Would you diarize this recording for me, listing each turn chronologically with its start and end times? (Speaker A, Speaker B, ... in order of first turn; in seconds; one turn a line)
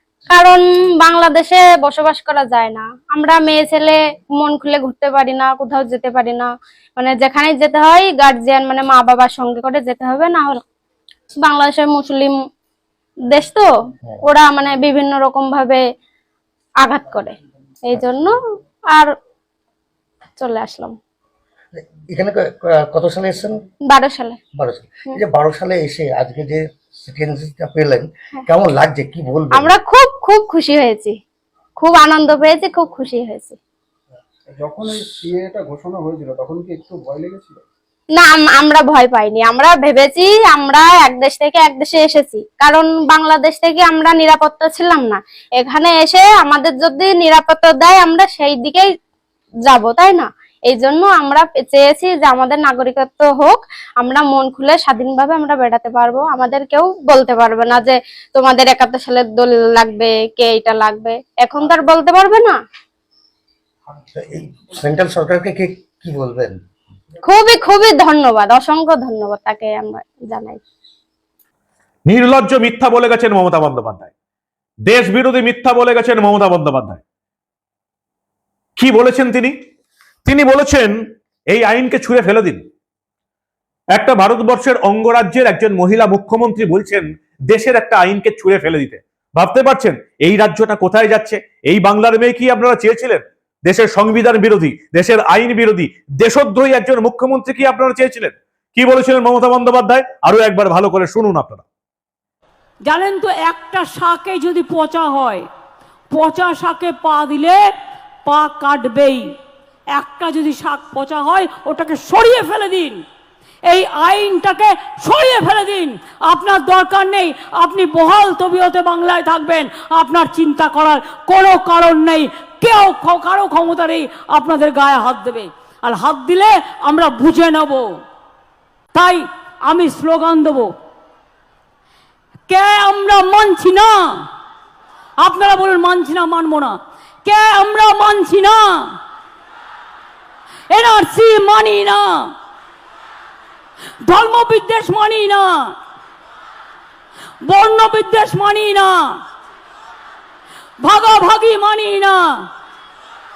Speaker A: 0.3-10.6
Speaker A: 11.4-12.3
Speaker A: 13.3-13.7
Speaker A: 14.2-15.8
Speaker A: 16.8-17.3
Speaker A: 17.9-18.4
Speaker A: 20.4-20.9
Speaker B: 21.7-23.6
Speaker A: 23.9-24.4
Speaker B: 24.5-29.7
Speaker A: 29.5-31.1
Speaker A: 31.8-33.6
Speaker C: 34.5-37.6
Speaker A: 38.1-48.8
Speaker A: 49.7-62.5
Speaker B: 64.1-66.6
Speaker A: 67.2-70.6
Speaker D: 72.1-74.1
Speaker D: 74.9-77.0
Speaker D: 78.8-79.5
Speaker D: 80.2-81.0
Speaker D: 81.5-82.6
Speaker D: 83.9-101.6
Speaker E: 102.8-105.4
Speaker E: 106.1-107.6
Speaker E: 108.2-109.2
Speaker E: 109.9-113.0
Speaker E: 113.7-127.9
Speaker E: 128.9-130.7
Speaker E: 132.5-134.2
Speaker E: 135.2-138.9
Speaker E: 140.7-142.3
Speaker E: 144.0-145.7
Speaker E: 147.4-149.1
Speaker E: 150.8-152.3